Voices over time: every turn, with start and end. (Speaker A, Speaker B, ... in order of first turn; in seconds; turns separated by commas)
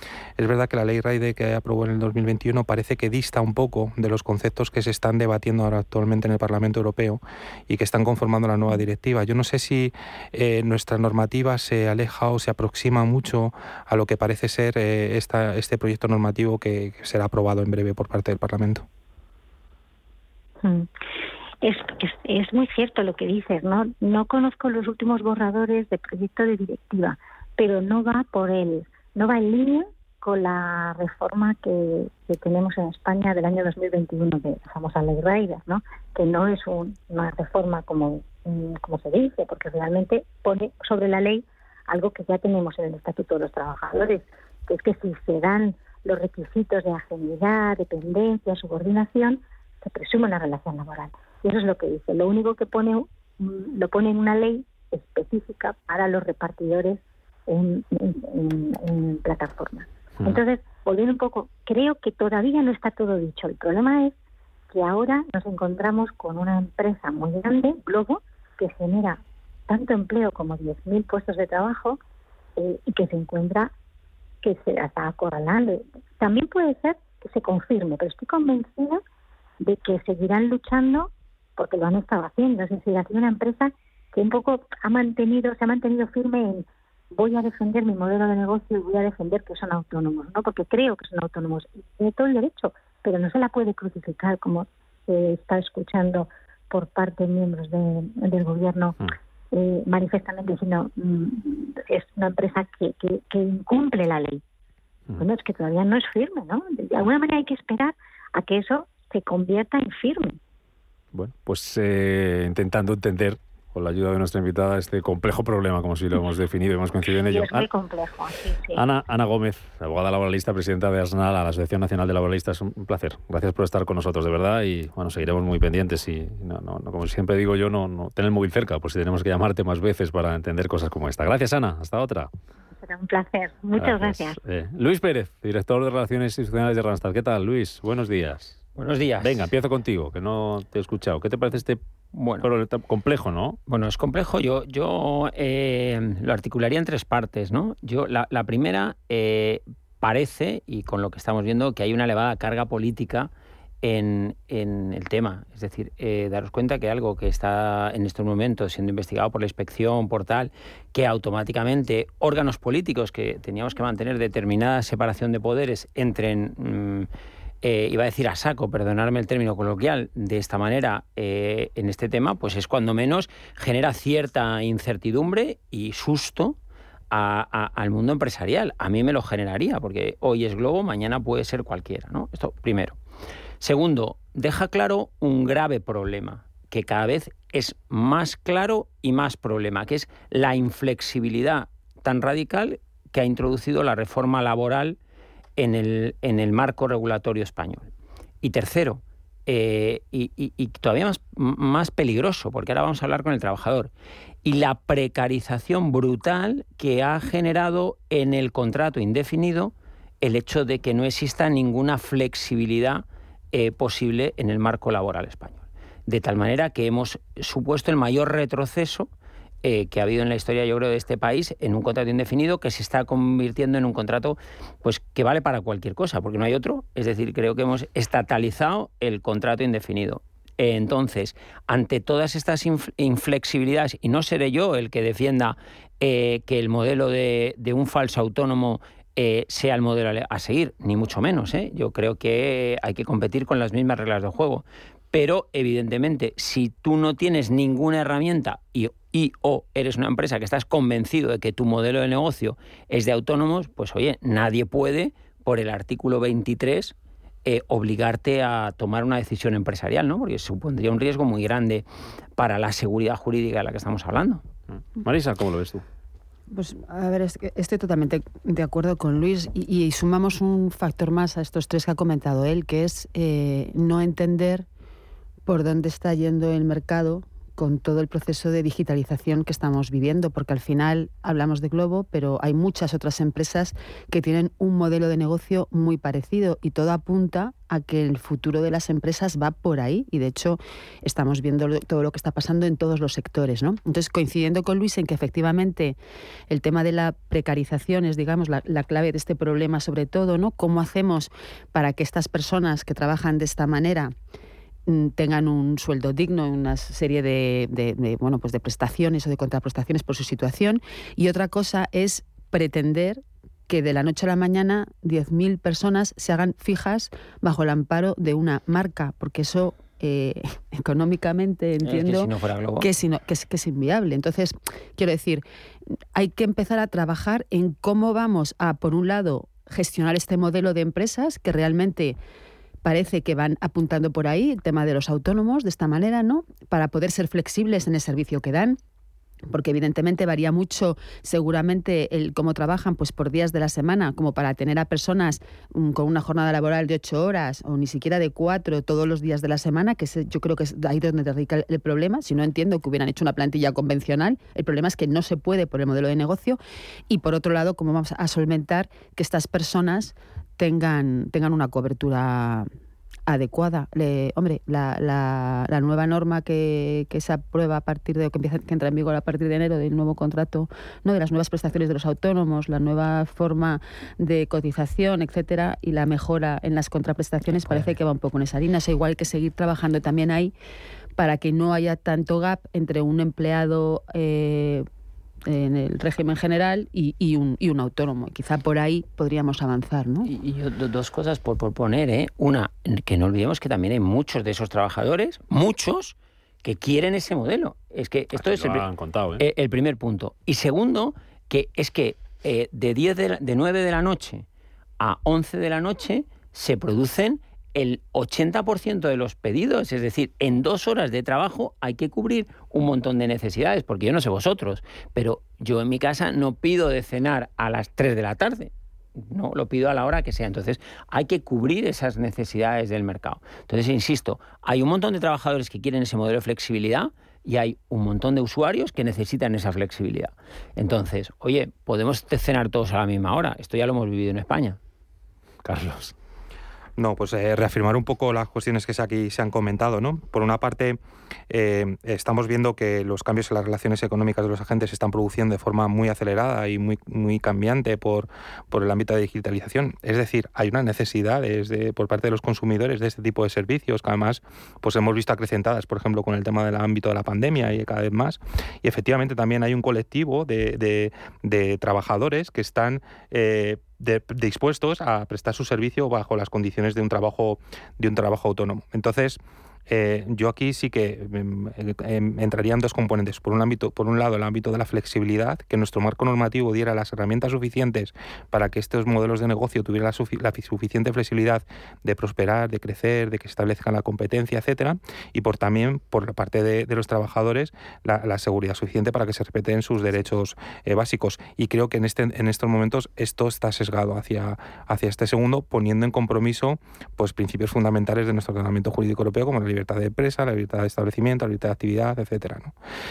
Speaker A: 0.4-18.8, Speaker B: 20.6-20.9, Speaker B: 21.6-64.1, Speaker B: 64.7-72.0, Speaker B: 72.6-73.7, Speaker B: 74.4-79.0, Speaker B: 79.6-99.0, Speaker B: 99.5-104.4, Speaker B: 105.2-110.4, Speaker C: 111.1-117.7, Speaker B: 117.3-118.8, Speaker C: 118.7-132.3, Speaker B: 132.8-134.4, Speaker C: 133.8-138.6, Speaker D: 138.7-139.4, Speaker C: 139.2-141.8, Speaker D: 142.1-142.5, Speaker C: 142.4-143.6, Speaker D: 143.7-153.3, Speaker D: 153.8-167.1, Speaker D: 167.6-176.6, Speaker D: 177.1-183.0, Speaker D: 183.6-195.0, Speaker D: 195.6-197.9, Speaker D: 198.4-203.9, Speaker D: 204.4-219.1, Speaker D: 219.6-261.9, Speaker D: 262.4-264.4, Speaker C: 264.7-265.8, Speaker E: 266.5-274.7, Speaker E: 275.4-296.0, Speaker E: 296.5-304.1, Speaker E: 304.9-325.4, Speaker D: 321.8-322.9, Speaker E: 326.1-332.2, Speaker E: 332.8-338.8, Speaker E: 339.5-362.7, Speaker E: 363.3-380.5, Speaker D: 377.6-377.9, Speaker E: 381.2-384.8, Speaker E: 385.5-390.3, Speaker D: 390.2-398.9, Speaker C: 398.3-399.4, Speaker D: 399.4-404.4, Speaker D: 405.0-434.8, Speaker C: 435.6-436.1, Speaker A: 437.0-441.0, Speaker A: 441.5-502.7